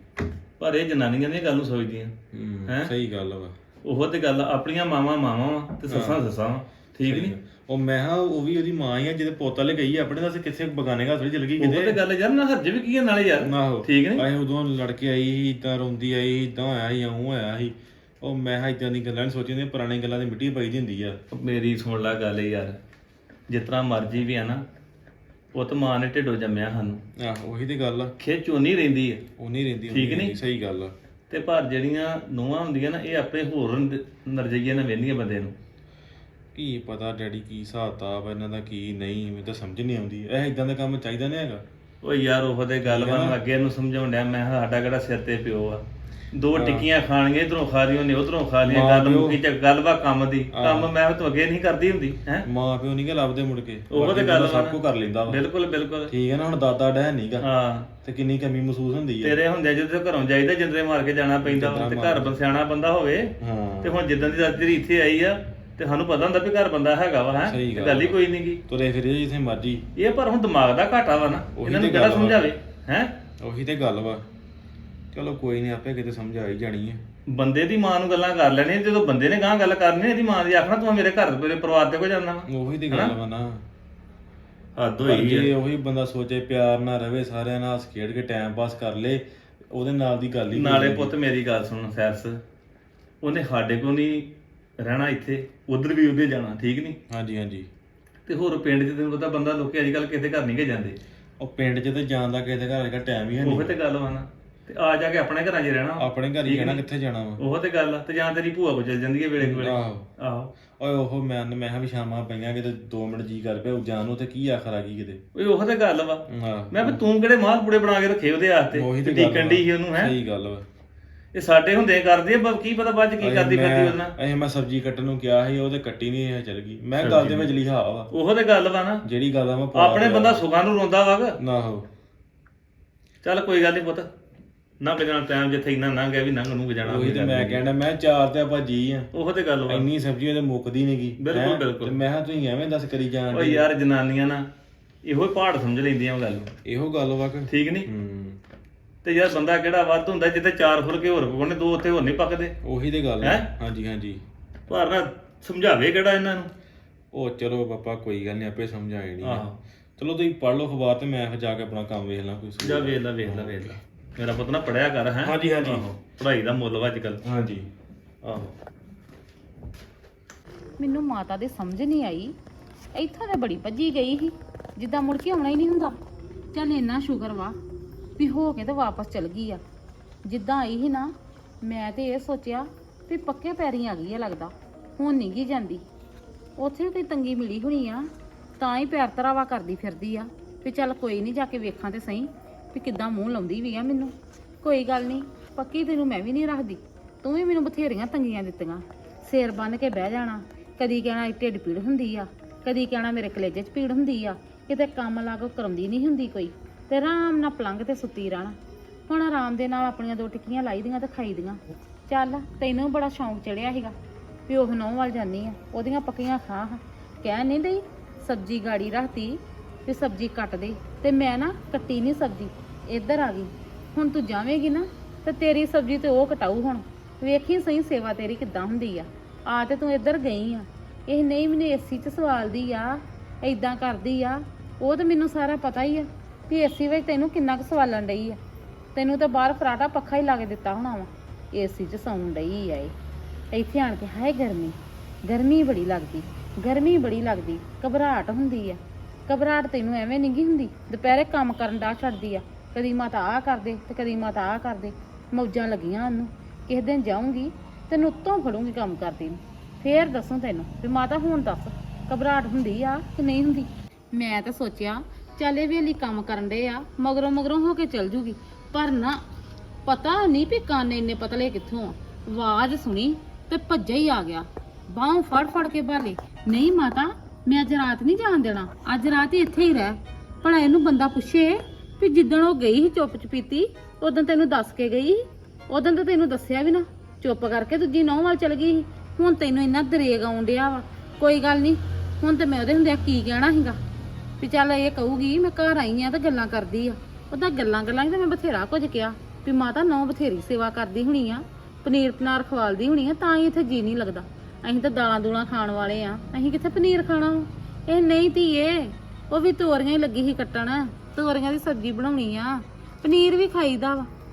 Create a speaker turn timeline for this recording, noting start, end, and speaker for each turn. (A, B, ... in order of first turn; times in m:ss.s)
0:00.6-0:02.1 A
0:02.3-0:03.5 B
0:03.8-0:07.3 A
0:05.9-0:06.2 B
0:07.0-0:12.0 B
0:11.6-0:14.2 A
0:13.4-0:21.2 B
0:21.3-0:22.8 A
0:23.5-0:24.6 A
0:25.5-0:27.0 A
0:27.2-0:28.1 B
0:28.2-0:29.2 A
0:29.4-0:30.9 B
0:29.9-0:30.3 A
0:31.3-0:35.5 A
0:36.5-0:41.6 B
0:42.0-0:52.5 A
0:42.8-0:43.4 B
0:46.5-0:46.9 B
0:48.6-0:49.4 B
0:50.5-0:50.9 B
0:52.4-0:55.4 B
0:53.9-0:56.1 A
0:56.1-0:57.4 B
0:57.4-0:57.9 A
0:58.0-0:59.4 B
0:59.2-1:08.6 A
1:01.4-1:02.3 B
1:03.4-1:04.0 B
1:07.4-1:09.8 B
1:09.9-1:13.1 A
1:11.6-1:12.5 B
1:13.4-1:14.2 B
1:15.1-1:17.0 B
1:17.3-1:23.1 A
1:22.5-1:23.6 B
1:24.8-1:25.5 A
1:25.0-1:31.1 B
1:30.5-1:32.4 A
1:33.2-1:37.0 A
1:37.1-1:37.7 B
1:38.2-1:41.0 A
1:41.4-1:43.7 B
1:43.4-1:46.8 A
1:46.0-1:47.4 B
1:47.4-1:50.5 A
1:49.4-1:50.1 B
1:50.8-1:55.2 B
1:55.3-2:00.1 A
1:56.3-1:57.0 B
1:58.7-2:00.6 B
2:01.3-2:04.1 A
2:03.2-2:08.1 B
2:07.0-2:07.5 A
2:08.1-2:09.0 A
2:09.0-2:10.4 B
2:09.7-2:11.4 A
2:11.4-2:11.9 B
2:13.2-2:14.1 A
2:14.8-2:17.6 A
2:16.8-2:19.1 B
2:19.1-2:19.9 A
2:19.7-2:23.6 B
2:21.2-2:21.9 A
2:23.3-2:24.5 A
2:25.0-2:26.5 A
2:26.6-2:28.4 B
2:27.5-2:27.9 A
2:29.0-2:32.5 A
2:32.6-2:34.2 B
2:33.2-2:33.5 A
2:34.7-2:36.5 A
2:37.1-2:39.5 B
2:39.2-2:39.6 A
2:40.0-2:43.8 B
2:42.6-2:47.2 A
2:45.2-2:45.8 B
2:47.2-2:47.7 B
2:48.2-2:48.5 A
2:50.8-2:52.3 C
2:52.9-2:56.0 C
2:56.5-2:57.6 C
2:58.2-2:59.6 C
3:00.2-3:05.8 C
3:06.6-3:08.1 C
3:08.6-3:28.6 C
3:29.1-3:33.9 C
3:34.5-3:58.4 C
3:58.9-4:02.9 C
4:03.5-4:29.2 C
4:29.8-4:53.8 C
4:54.4-5:14.1 C